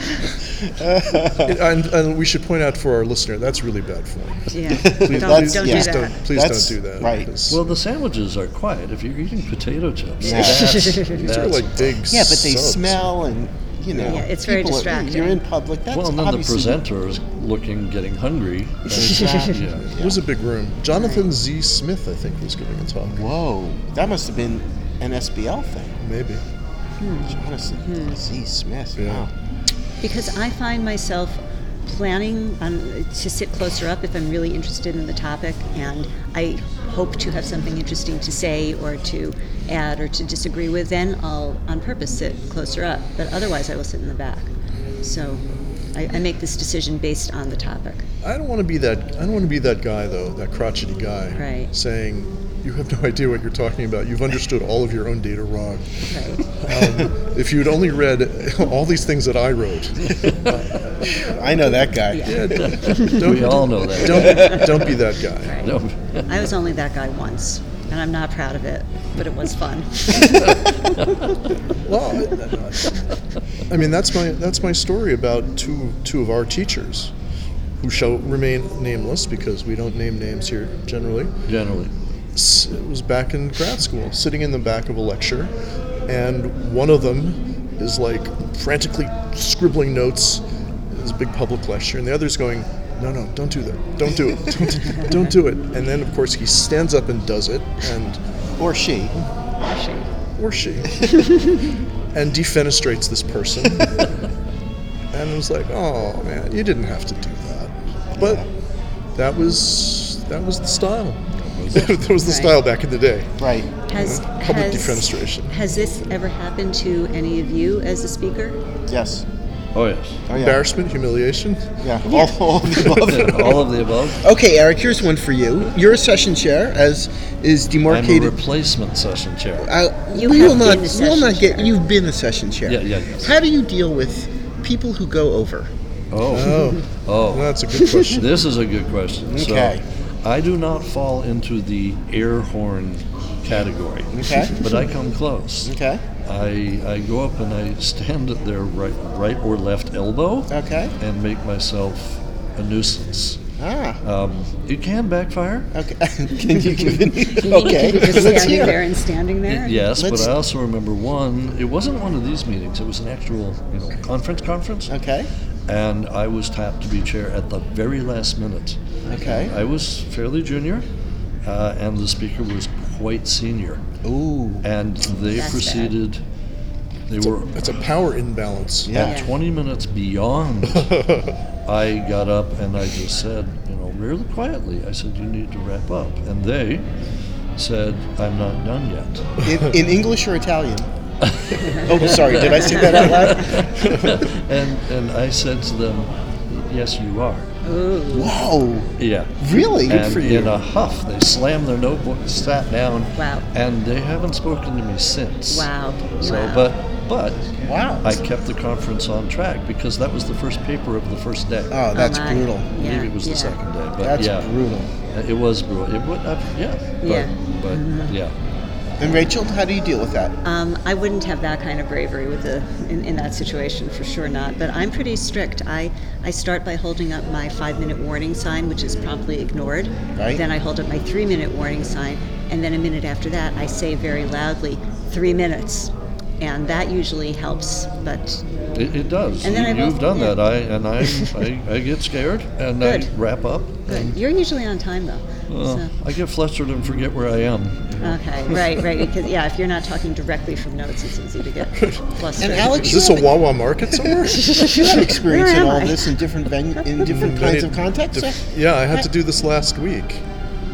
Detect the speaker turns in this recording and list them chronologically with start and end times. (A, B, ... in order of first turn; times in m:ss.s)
0:00.7-0:01.6 A
0:01.4-0:07.6 B
0:04.5-0:06.2 C
0:04.7-0:07.3 A
0:07.5-0:12.0 D
0:10.2-0:10.8 A
0:10.3-0:11.1 C
0:11.1-0:13.0 B
0:12.1-0:16.8 A
0:13.9-0:14.2 B
0:14.1-0:15.4 C
0:15.9-0:19.9 D
0:18.9-0:20.2 A
0:19.0-0:19.5 C
0:20.0-0:23.2 B
0:20.9-0:21.3 C
0:23.0-0:26.0 A
0:26.0-0:26.4 B
0:27.0-0:28.2 C
0:27.3-0:29.3 A
0:29.0-0:29.3 B
0:30.0-0:44.5 C
0:45.0-0:45.4 C
0:46.0-0:48.1 C
0:48.2-1:01.6 B
0:51.4-0:51.7 C
0:56.1-0:56.4 C
1:01.1-1:02.8 A
1:02.1-1:03.2 C
1:02.3-1:05.6 B
1:02.5-1:04.9 D
1:04.1-1:04.6 A
1:05.4-1:11.3 C
1:05.6-1:06.5 D
1:10.3-1:11.1 D
1:11.8-1:12.9 B
1:13.7-1:17.1 B
1:17.8-1:21.3 B
1:21.5-1:21.9 D
1:22.4-1:25.5 B
1:26.1-1:38.2 B
1:38.6-1:39.2 A
1:39.6-1:40.1 C
1:40.4-1:41.6 B
1:42.1-1:44.1 B
1:45.1-1:48.4 B
1:48.2-1:48.5 A
1:49.2-1:53.3 B
1:51.4-1:52.1 D
1:52.2-1:52.6 C
1:53.4-1:53.7 A
1:53.9-1:58.6 C
1:53.9-1:55.5 B
1:58.9-1:59.3 A
1:59.7-2:00.2 D
2:00.3-2:00.6 A
2:00.3-2:01.8 B
2:01.8-2:08.4 A
2:02.1-2:02.4 C
2:02.7-2:03.2 B
2:02.9-2:04.3 D
2:07.9-2:09.7 D
2:09.6-2:15.7 A
2:10.1-2:11.8 C
2:12.7-2:13.3 D
2:16.1-2:25.8 D
2:16.3-2:18.3 B
2:19.3-2:19.8 A
2:24.1-2:24.5 A
2:25.6-2:26.0 A
2:26.3-2:33.4 D
2:30.5-2:30.9 A
2:33.6-2:34.0 A
2:34.0-2:35.7 D
2:35.7-2:38.9 A
2:37.2-2:39.9 C
2:39.5-2:44.9 D
2:40.0-2:40.4 A
2:44.9-2:45.3 A
2:45.7-2:50.9 D
2:49.1-2:49.6 A
2:51.4-2:53.8 D
2:54.0-2:54.6 A
2:54.6-2:56.2 D
2:55.4-2:55.9 C
2:57.1-2:57.6 D
2:57.2-2:59.0 B
2:58.9-2:59.2 A
2:58.9-3:01.1 D
2:59.0-2:59.3 C
3:00.7-3:01.3 B
3:01.7-3:06.9 D
3:07.6-3:09.3 D
3:09.4-3:10.9 A
3:11.2-3:17.5 D
3:11.8-3:14.1 A
3:17.6-3:18.3 C
3:18.1-3:18.9 A
3:19.0-3:25.7 D
3:19.4-3:20.2 A
3:19.5-3:20.6 B
3:23.2-3:23.5 C
3:25.5-3:26.7 C
3:26.2-3:27.5 D
3:27.7-3:28.2 A
3:28.0-3:31.9 D
3:31.7-3:32.7 A
3:31.9-3:33.6 C
3:32.7-3:34.5 D
3:34.0-3:34.9 A
3:35.1-3:38.3 D
3:37.0-3:38.1 C
3:39.0-3:40.4 A
3:40.4-3:58.4 C
3:50.2-3:50.4 A
3:58.8-4:04.2 D
3:59.4-4:00.4 C
4:02.8-4:03.1 C
4:03.9-4:05.9 C
4:05.5-4:08.1 D
4:08.0-4:13.0 C
4:11.8-4:15.1 B
4:12.4-4:18.4 A
4:14.3-4:16.1 C
4:17.0-4:20.2 B